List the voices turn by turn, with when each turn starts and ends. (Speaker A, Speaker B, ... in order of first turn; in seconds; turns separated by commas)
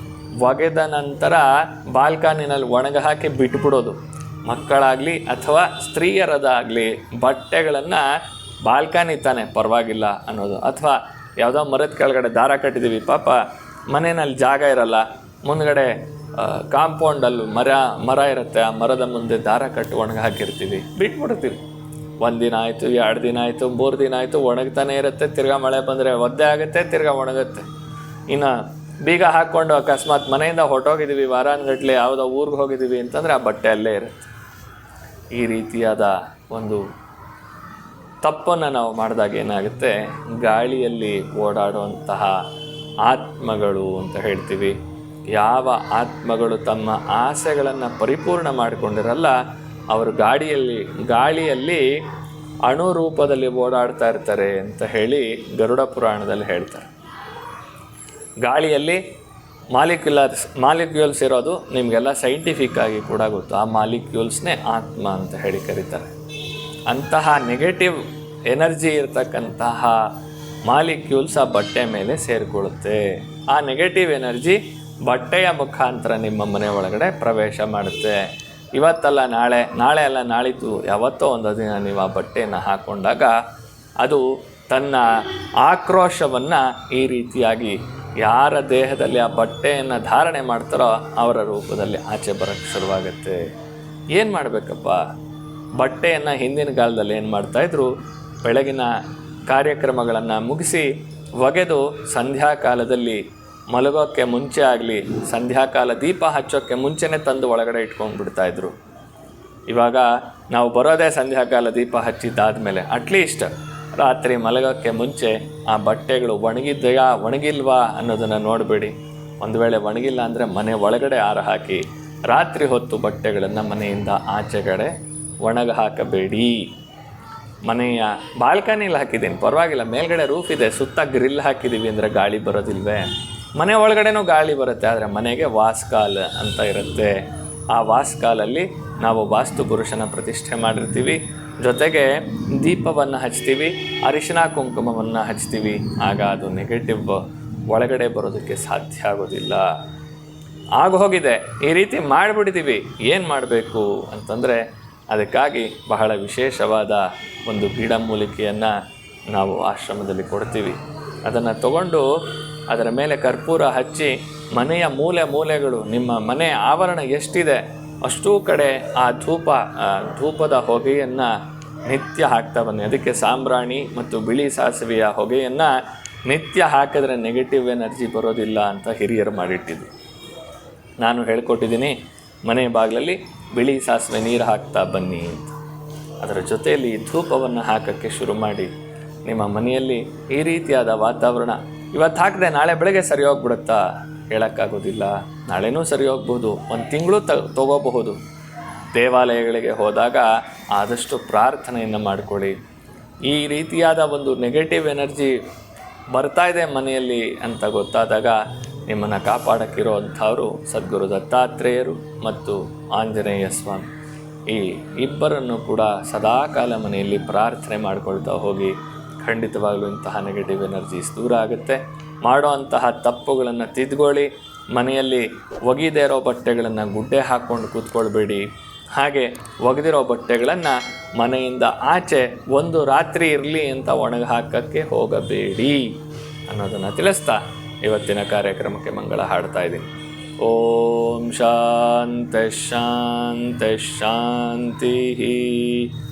Speaker A: 0.4-21.6, Speaker A: 22.2-27.7, Speaker A: 28.3-34.3, Speaker A: 35.3-36.8, Speaker A: 38.2-42.4, Speaker A: 43.0-44.8, Speaker A: 45.3-49.4, Speaker A: 49.9-52.0, Speaker A: 52.6-56.9, Speaker A: 58.4-59.0, Speaker A: 59.7-66.1, Speaker A: 66.9-70.1, Speaker A: 70.7-83.4, Speaker A: 84.0-93.5, Speaker A: 94.1-95.0, Speaker A: 95.8-108.8, Speaker A: 109.7-126.8, Speaker A: 127.7-149.7, Speaker A: 150.8-158.8, Speaker A: 159.3-162.1, Speaker A: 162.7-171.3, Speaker A: 171.9-179.9, Speaker A: 181.0-185.6, Speaker A: 186.2-188.7, Speaker A: 189.3-198.2, Speaker A: 198.9-202.6, Speaker A: 203.3-205.4, Speaker A: 206.1-213.9, Speaker A: 214.5-239.9, Speaker A: 240.4-246.0